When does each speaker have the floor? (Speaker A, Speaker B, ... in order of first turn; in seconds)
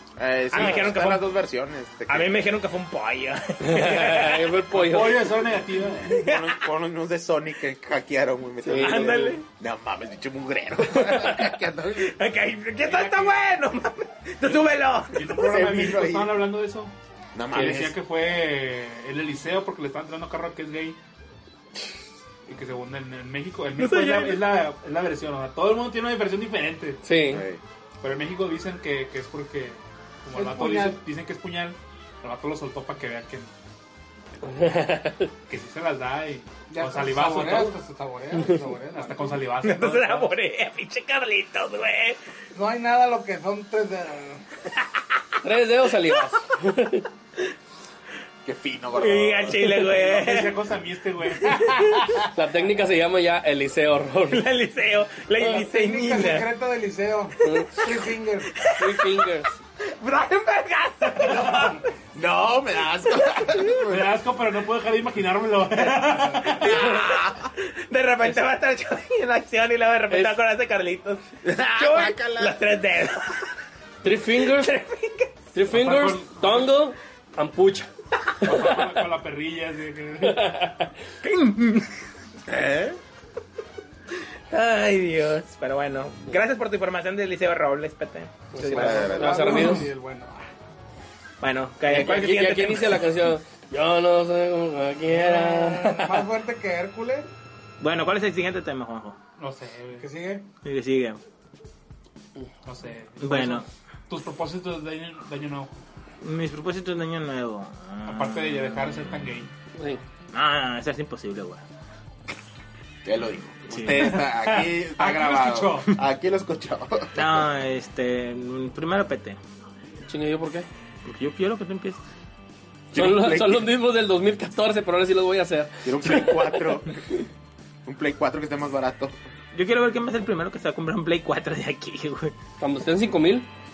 Speaker A: 0.2-2.4, 6.1-12.2, 15.2-16.4, 17.3-18.0, 27.3-27.6, 48.4-49.8, 62.1-64.2, 66.5-67.5, 71.4-72.6, 82.5-83.0, 88.7-89.8, 113.0-117.4, 122.9-123.7, 125.8-127.0, 127.8-129.2
Speaker B: 0.5-1.2, 2.1-4.6, 6.1-6.6, 8.8-9.4, 10.9-15.2, 23.8-24.4, 39.6-42.2, 49.0-50.5, 51.5-52.3, 54.3-56.5, 57.5-57.8, 58.5-59.3, 59.8-61.9, 63.2-63.6, 66.6-73.5, 74.3-75.3, 81.2-81.9, 84.5-89.2, 91.4-93.0, 97.8-99.2, 100.6-101.2, 103.2-103.7, 106.2-109.1, 110.3-111.6, 113.7-114.6, 117.1-119.4, 121.0-122.0, 129.5-132.3
Speaker C: 0.6-0.9, 4.7-6.2, 12.8-13.4, 15.1-16.9, 17.5-21.0, 22.5-27.0, 28.0-33.5, 35.5-37.8, 38.9-40.3, 49.8-52.0, 61.3-61.7, 63.9-66.7, 75.7-76.7, 78.4-80.5, 99.4-100.1, 102.6-105.8, 108.1-109.5, 115.0-115.9
Speaker D: 3.6-5.3, 8.6-9.4, 17.5-17.8, 27.0-27.4, 34.4-35.3, 45.4-47.0, 52.3-54.5, 57.4-57.8, 58.6-59.6, 70.1-70.4, 74.0-74.7, 75.5-77.9, 80.2-80.9, 88.5-89.9, 91.9-96.1, 109.7-110.0, 120.1-120.7, 122.9-127.2, 132.6-133.5
Speaker E: 30.3-31.0, 36.7-39.4, 42.5-44.4, 55.4-58.6, 88.6-90.4, 95.1-97.3, 100.0-100.4